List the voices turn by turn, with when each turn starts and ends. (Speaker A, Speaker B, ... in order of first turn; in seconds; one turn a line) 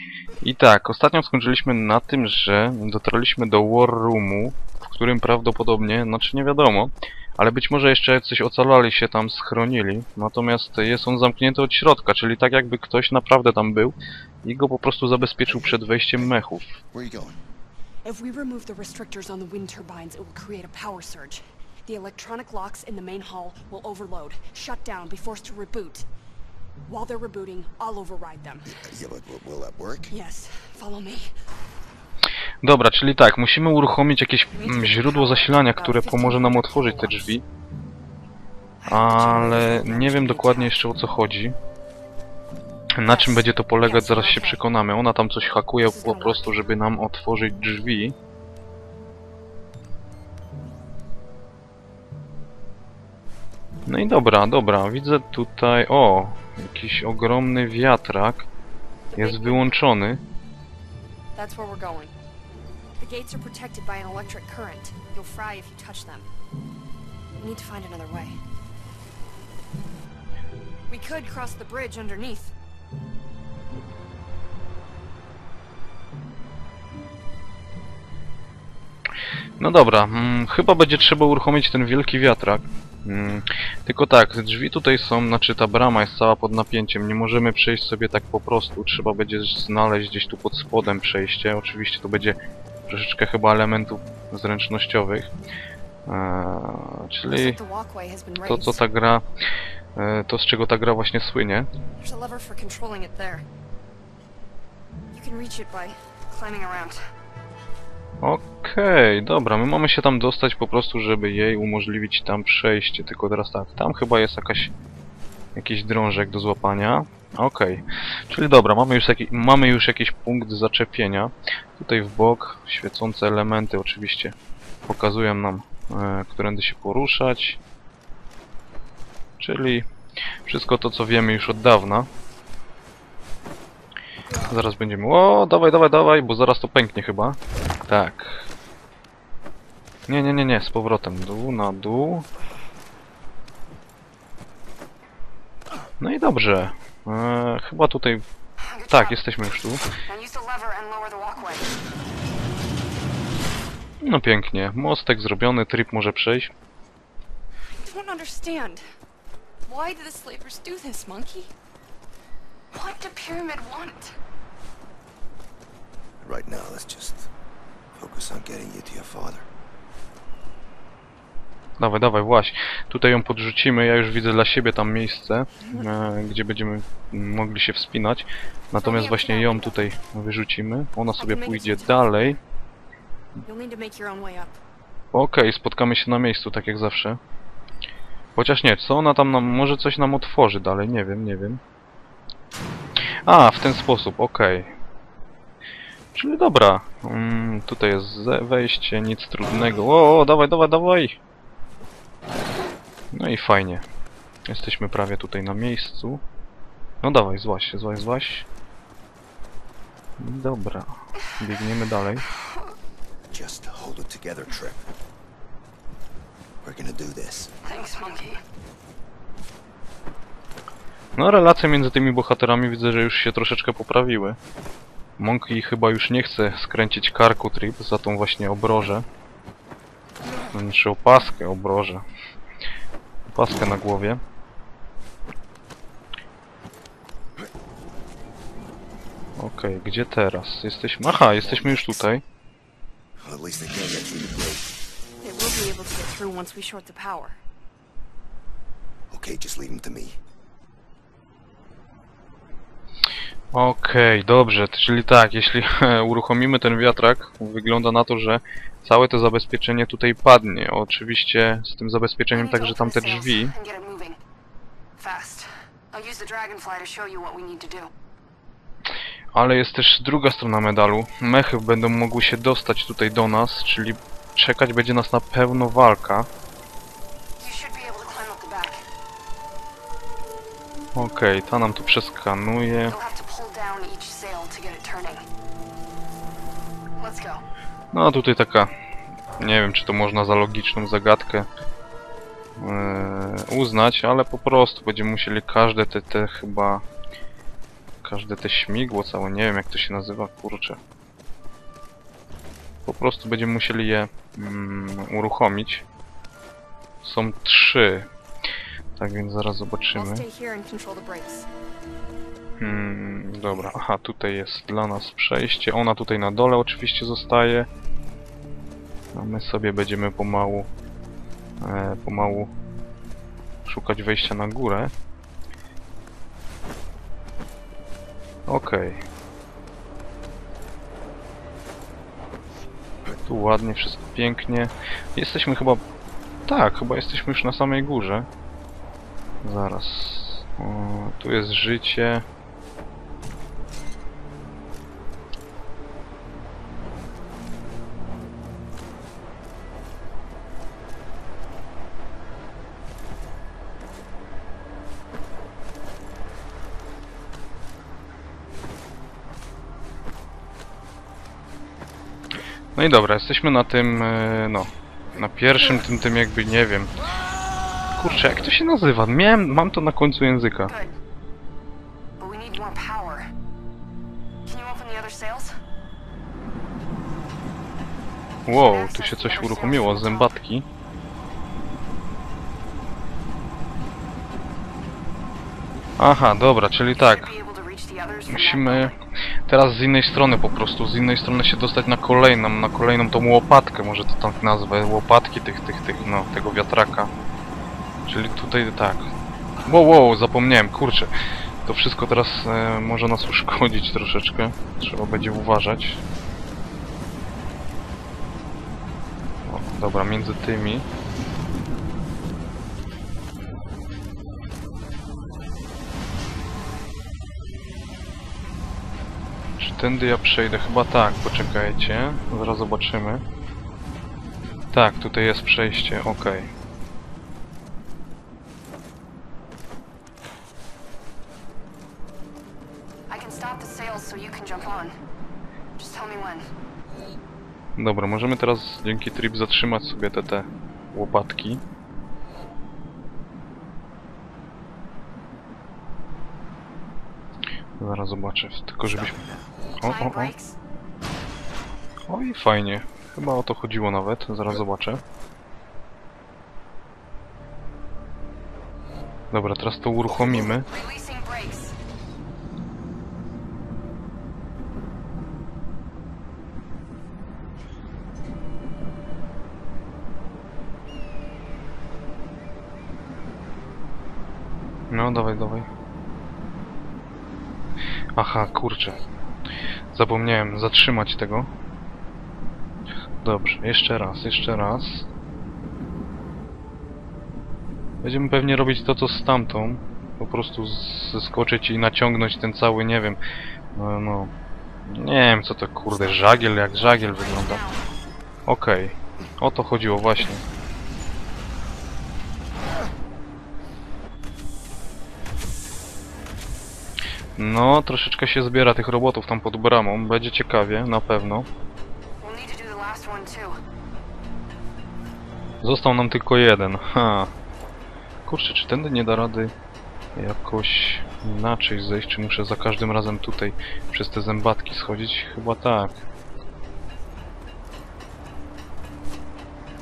Speaker A: 0.4-16.8
Speaker B: 15.4-16.3
Speaker B: 16.9-17.4
Speaker C: 18.0-26.1
Speaker C: 26.9-28.9
Speaker B: 28.7-30.1
Speaker C: 30.1-31.3
Speaker A: 32.6-37.4
Speaker C: 34.5-37.4
Speaker C: 38.8-40.8
Speaker A: 38.9-41.5
Speaker A: 43.0-48.1
Speaker C: 43.0-44.6
Speaker C: 45.8-46.6
Speaker A: 53.9-58.5
Speaker C: 59.1-59.8
Speaker A: 59.1-60.2
Speaker C: 61.3-62.1
Speaker C: 63.0-66.3
Speaker C: 67.4-68.4
Speaker C: 70.9-72.5
Speaker A: 79.6-92.4
Speaker A: 92.9-95.3
Speaker A: 96.1-97.6
Speaker C: 97.3-98.8
Speaker A: 98.4-99.2
Speaker A: 100.0-101.7
Speaker C: 102.0-103.4
Speaker C: 105.1-107.0
Speaker A: 108.2-114.7
Speaker A: 115.5-124.3
Speaker A: 124.9-127.6
Speaker A: 129.4-129.8
Speaker A: 130.4-132.1
Speaker A: 134.4-138.4
Speaker A: 140.1-142.2
Speaker A: 146.0-148.2
Speaker C: 148.7-149.2
Speaker A: 148.9-149.8
Speaker C: 150.0-151.7
Speaker A: 154.0-156.5
Speaker C: 157.8-158.8
Speaker C: 159.7-161.5
Speaker C: 162.7-164.1
Speaker B: 166.2-167.3
Speaker B: 167.9-169.5
Speaker A: 171.8-182.4
Speaker C: 178.8-179.9
Speaker C: 181.2-182.4
Speaker C: 183.4-184.6
Speaker A: 185.1-187.2
Speaker A: 188.3-191.6
Speaker A: 193.2-194.7
Speaker A: 196.1-201.2
Speaker A: 203.1-203.8
Speaker A: 204.5-206.2
Speaker A: 207.0-208.5
Speaker A: 210.2-212.3
Speaker B: 213.3-214.8
Speaker B: 216.6-217.5
Speaker C: 217.6-218.4
Speaker A: 221.2-224.4
Speaker A: 225.2-229.0
Speaker A: 230.5-232.0
Speaker A: 233.3-234.2
Speaker A: 239.4-242.2
Speaker B: 241.0-242.0
Speaker B: 243.2-244.7
Speaker C: 245.2-247.4
Speaker B: 249.1-250.2
Speaker A: 253.5-263.5
Speaker C: 262.3-264.2
Speaker C: 265.0-267.9
Speaker A: 269.3-276.3
Speaker C: 277.4-278.8
Speaker A: 280.9-282.9
Speaker C: 282.9-285.2
Speaker C: 287.0-287.4
Speaker A: 287.9-288.7
Speaker A: 289.4-291.5
Speaker A: 292.6-296.8
Speaker A: 298.0-300.8
Speaker A: 302.9-305.8
Speaker A: 307.0-308.1
Speaker A: 309.0-310.2
Speaker C: 309.9-311.5
Speaker A: 312.6-317.7
Speaker A: 319.1-320.7
Speaker A: 321.6-322.5
Speaker A: 323.6-324.9
Speaker A: 328.5-329.0
Speaker A: 333.3-335.8
Speaker A: 336.5-338.3
Speaker A: 339.4-342.2
Speaker A: 362.7-366.9
Speaker A: 368.0-370.7
Speaker C: 370.7-370.9
Speaker C: 372.2-373.3
Speaker C: 374.4-375.5
Speaker C: 378.5-380.3
Speaker A: 378.5-380.6
Speaker A: 386.0-387.3
Speaker C: 386.9-388.9
Speaker A: 388.3-388.9
Speaker A: 389.5-397.1
Speaker A: 398.1-399.1
Speaker A: 399.6-401.1
Speaker A: 401.6-406.0
Speaker A: 409.4-410.9
Speaker A: 419.6-423.2
Speaker A: 424.7-426.5
Speaker C: 433.1-434.9
Speaker C: 435.8-436.5
Speaker A: 437.8-441.6
Speaker A: 447.8-449.2
Speaker B: 448.8-449.6
Speaker C: 449.8-450.6
Speaker A: 449.8-450.3
Speaker A: 452.1-455.0
Speaker A: 459.3-460.7
Speaker C: 460.3-461.7
Speaker A: 474.9-475.7
Speaker A: 478.1-479.0
Speaker A: 479.9-481.5
Speaker A: 483.2-485.1
Speaker A: 488.0-493.2
Speaker A: 493.7-494.3
Speaker A: 494.9-497.6
Speaker C: 496.7-497.8
Speaker A: 498.5-500.4
Speaker A: 507.4-511.5
Speaker C: 512.2-513.6
Speaker A: 515.6-517.3
Speaker A: 518.2-519.5
Speaker A: 520.1-525.9